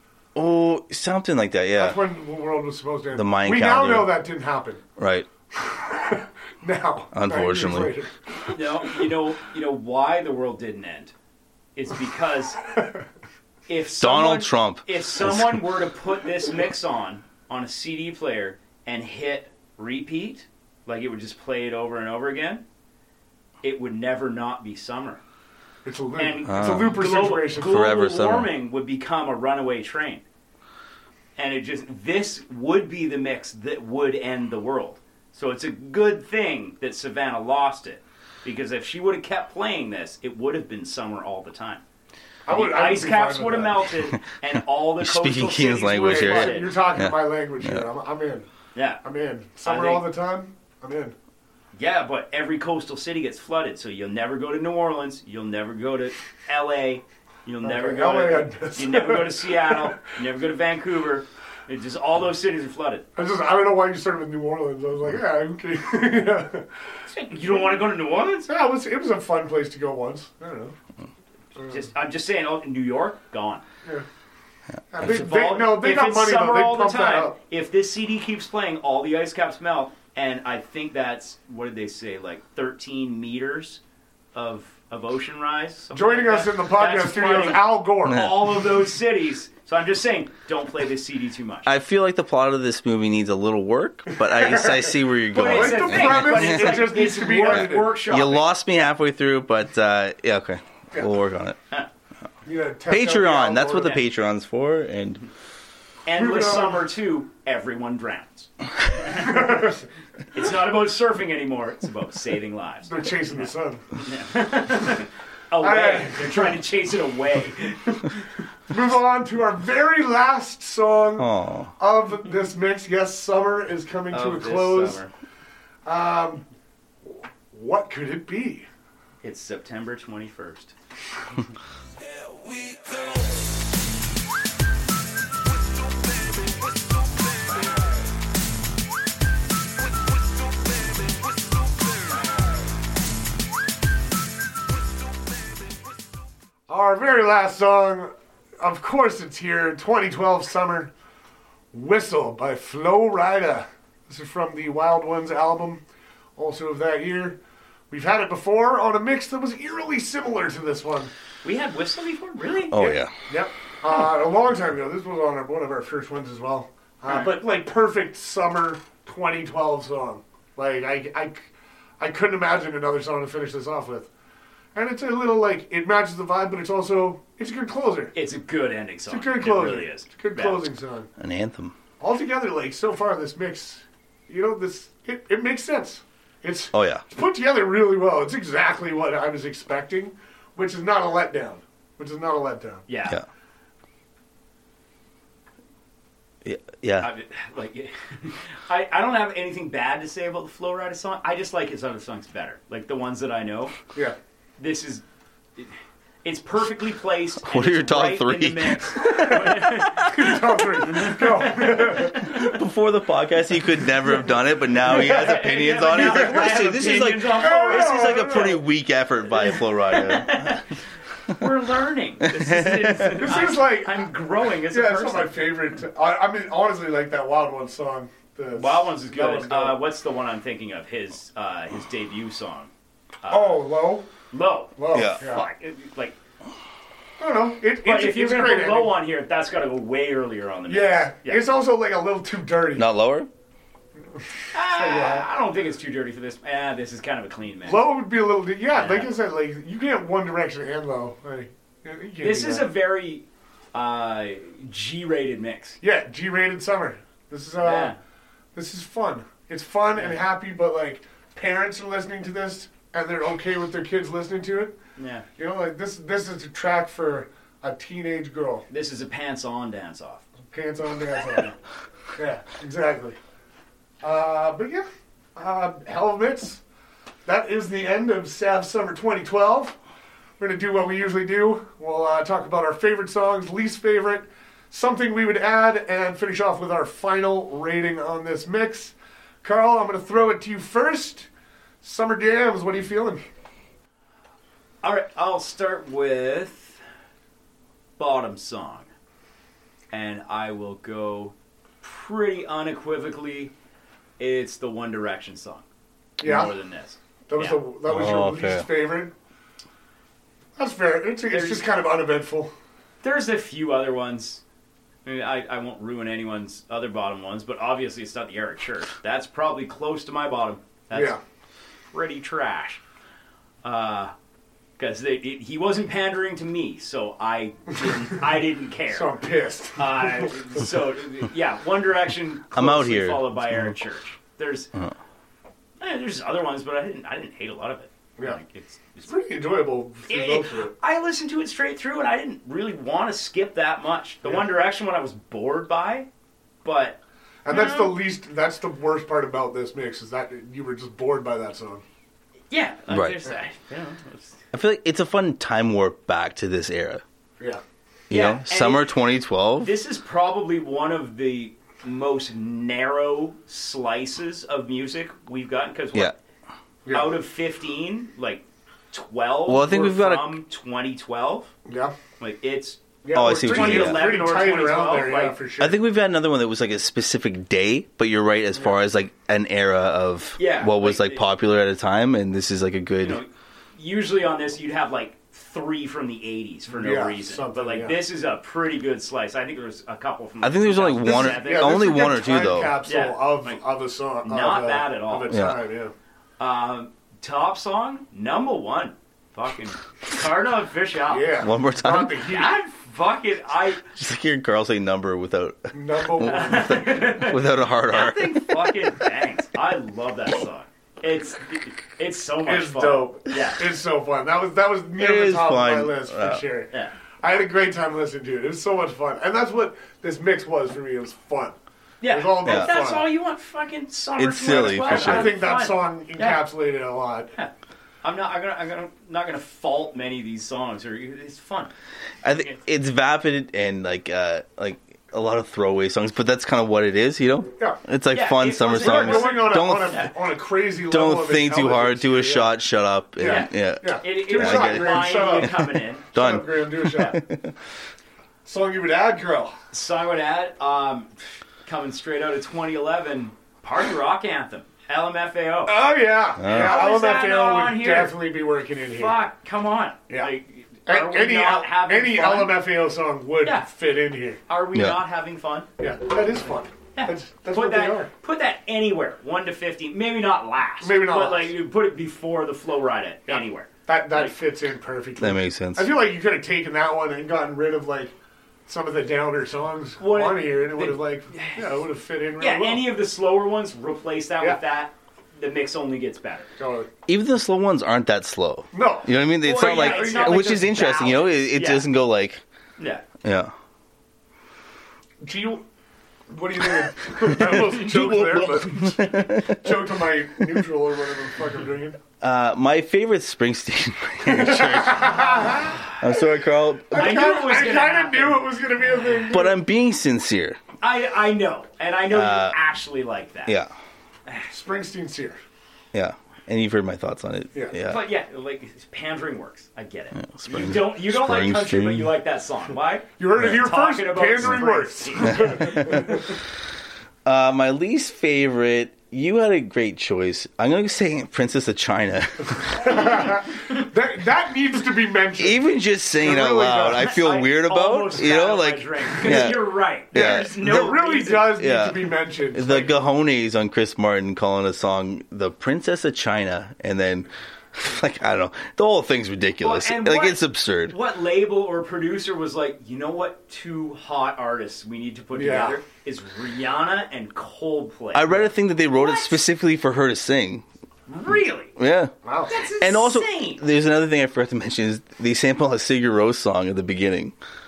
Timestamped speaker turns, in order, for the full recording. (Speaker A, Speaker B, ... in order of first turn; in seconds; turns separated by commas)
Speaker A: 0.3-2.0, Speaker B: 1.8-4.8, Speaker A: 3.1-4.1, Speaker A: 5.0-5.3, Speaker B: 5.5-8.6, Speaker A: 7.1-7.9, Speaker C: 8.5-11.1, Speaker C: 11.8-12.6, Speaker C: 13.7-22.6, Speaker A: 14.0-15.7, Speaker C: 23.6-25.2, Speaker B: 25.8-27.8, Speaker C: 26.1-30.2, Speaker A: 26.5-28.5, Speaker C: 31.4-41.8, Speaker B: 42.5-43.9, Speaker C: 42.5-46.7, Speaker A: 45.0-47.9, Speaker B: 45.9-48.5, Speaker C: 48.7-49.0, Speaker B: 49.0-51.1, Speaker C: 49.6-50.1, Speaker C: 51.7-63.0, Speaker B: 57.6-60.0, Speaker B: 63.1-66.7, Speaker C: 67.1-68.5, Speaker B: 68.5-70.7, Speaker C: 71.6-73.6, Speaker B: 74.9-77.3, Speaker C: 75.0-83.8, Speaker C: 84.3-91.7, Speaker B: 85.9-88.3, Speaker A: 88.1-88.3, Speaker A: 91.7-96.9, Speaker B: 94.2-98.0, Speaker C: 95.3-98.5, Speaker A: 97.5-101.6, Speaker B: 102.4-104.0, Speaker A: 102.9-105.2, Speaker C: 106.0-109.6, Speaker B: 106.1-106.8, Speaker B: 109.1-109.8, Speaker C: 110.3-118.3, Speaker B: 112.8-113.8, Speaker B: 115.6-116.6, Speaker B: 118.7-125.0, Speaker A: 121.2-121.7, Speaker C: 124.1-125.1, Speaker B: 125.8-126.4, Speaker B: 127.0-128.7, Speaker C: 129.2-130.7, Speaker B: 146.7-150.9, Speaker B: 151.7-155.8, Speaker B: 156.3-157.4, Speaker B: 157.9-161.1, Speaker C: 161.4-162.9, Speaker A: 162.7-163.1, Speaker B: 163.3-174.1, Speaker C: 167.1-167.3, Speaker B: 174.7-178.1, Speaker C: 178.1-180.6, Speaker B: 179.1-181.1, Speaker A: 181.2-181.8, Speaker B: 182.0-192.8, Speaker A: 186.7-187.0, Speaker C: 192.9-193.2, Speaker A: 196.4-197.1, Speaker C: 197.0-203.8, Speaker C: 204.6-205.0, Speaker C: 205.6-212.3, Speaker A: 207.4-209.9, Speaker B: 209.1-209.4, Speaker B: 210.0-212.3, Speaker A: 212.2-220.6, Speaker C: 214.8-218.6, Speaker B: 215.8-216.7, Speaker B: 217.3-218.6, Speaker C: 219.3-220.7, Speaker C: 221.3-225.3, Speaker A: 222.2-223.3, Speaker B: 223.2-224.1, Speaker B: 224.7-229.8, Speaker C: 228.5-232.7, Speaker C: 233.2-233.6, Speaker B: 233.3-234.1, Speaker C: 234.3-236.2, Speaker B: 234.8-235.4, Speaker A: 234.9-235.2, Speaker B: 237.2-238.9, Speaker C: 237.8-241.4, Speaker B: 240.7-242.8, Speaker A: 242.8-243.3, Speaker C: 244.5-247.9, Speaker B: 244.7-245.2, Speaker B: 247.6-252.7, Speaker C: 248.7-249.1, Speaker C: 252.2-255.8, Speaker B: 255.8-257.9, Speaker C: 257.6-258.0, Speaker B: 258.5-264.7, Speaker C: 259.9-260.2, Speaker C: 264.9-265.2, Speaker B: 265.4-268.6, Speaker C: 268.7-270.2, Speaker B: 270.5-271.5, Speaker B: 272.1-273.2, Speaker B: 274.0-276.6, Speaker B: 277.2-279.8, Speaker B: 280.4-291.3, Speaker B: 291.8-293.2, Speaker C: 294.8-296.8, Speaker C: 298.0-298.9, Speaker C: 299.9-303.5, Speaker C: 304.2-305.6, Speaker B: 306.2-306.5, Speaker C: 306.2-307.6, Speaker B: 307.3-309.1, Speaker A: 307.9-308.6, Speaker B: 310.6-312.5, Speaker C: 311.3-311.7, Speaker C: 313.0-314.4, Speaker C: 315.0-321.2, Speaker B: 320.9-321.2, Speaker C: 321.9-322.8, Speaker C: 323.6-324.1, Speaker C: 324.8-329.1, Speaker B: 328.9-330.4, Speaker C: 329.8-334.7, Speaker A: 332.5-333.7, Speaker C: 335.8-339.1, Speaker B: 339.1-340.7, Speaker C: 340.1-346.1, Speaker C: 346.6-348.0, Speaker B: 347.4-351.8, Speaker C: 352.5-354.4, Speaker A: 352.9-353.2, Speaker A: 354.5-357.0, Speaker C: 358.1-358.9, Speaker A: 358.1-359.7, Speaker C: 359.6-366.1, Speaker B: 366.8-367.2, Speaker C: 366.9-371.5, Speaker A: 369.5-370.4, Speaker B: 371.6-371.9, Speaker C: 372.2-375.4, Speaker B: 373.0-375.8, Speaker A: 373.1-374.1, Speaker A: 375.6-383.2, Speaker C: 380.4-381.2, Speaker C: 383.0-391.8, Speaker B: 386.7-388.0, Speaker A: 390.4-392.8, Speaker B: 391.0-395.9, Speaker C: 392.8-393.6, Speaker C: 394.2-395.4, Speaker A: 395.3-395.6, Speaker C: 396.4-401.4, Speaker B: 401.1-402.5, Speaker A: 401.4-402.2, Speaker C: 402.1-403.8, Speaker A: 403.9-409.0, Speaker B: 405.7-406.9, Speaker C: 406.2-413.6, Speaker B: 412.4-423.1, Speaker A: 415.0-416.4, Speaker C: 422.0-426.4, Speaker A: 422.4-422.7, Speaker A: 424.2-425.4, Speaker B: 424.4-427.3, Speaker C: 428.0-431.7, Speaker A: 432.2-440.1, Speaker C: 438.1-440.1, Speaker B: 438.6-442.5, Speaker A: 440.9-447.5, Speaker B: 443.2-447.2, Speaker C: 443.2-446.1, Speaker B: 448.4-449.5, Speaker C: 449.7-451.1, Speaker C: 451.6-455.7, Speaker B: 455.7-459.1, Speaker A: 456.4-456.8, Speaker C: 456.4-458.2, Speaker C: 458.9-462.6, Speaker B: 460.9-464.4, Speaker C: 463.4-463.7, Speaker C: 464.5-465.7, Speaker B: 465.8-468.1, Speaker C: 466.9-474.3, Speaker B: 470.8-471.5, Speaker B: 473.3-478.1, Speaker A: 475.2-475.9, Speaker B: 478.7-482.9, Speaker C: 480.0-481.8, Speaker C: 482.4-486.5, Speaker B: 486.6-486.9, Speaker A: 487.1-492.4, Speaker B: 488.7-490.7, Speaker C: 489.4-491.9, Speaker C: 492.8-493.0, Speaker A: 493.2-493.5, Speaker B: 495.2-495.6, Speaker B: 496.3-502.0, Speaker A: 497.3-499.9, Speaker C: 497.5-498.8, Speaker A: 502.2-507.5, Speaker B: 504.2-505.9, Speaker C: 505.4-506.0, Speaker B: 506.9-509.6, Speaker C: 506.9-508.5, Speaker A: 509.3-510.6, Speaker C: 510.8-513.5, Speaker A: 512.1-512.5, Speaker A: 513.5-513.7, Speaker C: 514.3-514.5, Speaker B: 514.5-515.4, Speaker A: 515.9-518.0, Speaker C: 517.8-526.1, Speaker A: 520.2-522.1, Speaker B: 523.2-526.3, Speaker A: 525.3-526.1, Speaker A: 527.2-533.0, Speaker B: 532.7-537.1, Speaker C: 532.9-533.8, Speaker A: 535.4-540.9, Speaker C: 537.0-541.6, Speaker B: 540.1-542.9, Speaker A: 541.5-550.9, Speaker C: 549.6-559.4, Speaker B: 555.3-555.8, Speaker A: 558.1-560.6, Speaker C: 561.1-561.7, Speaker A: 561.8-567.3, Speaker B: 562.2-562.5, Speaker C: 562.5-563.6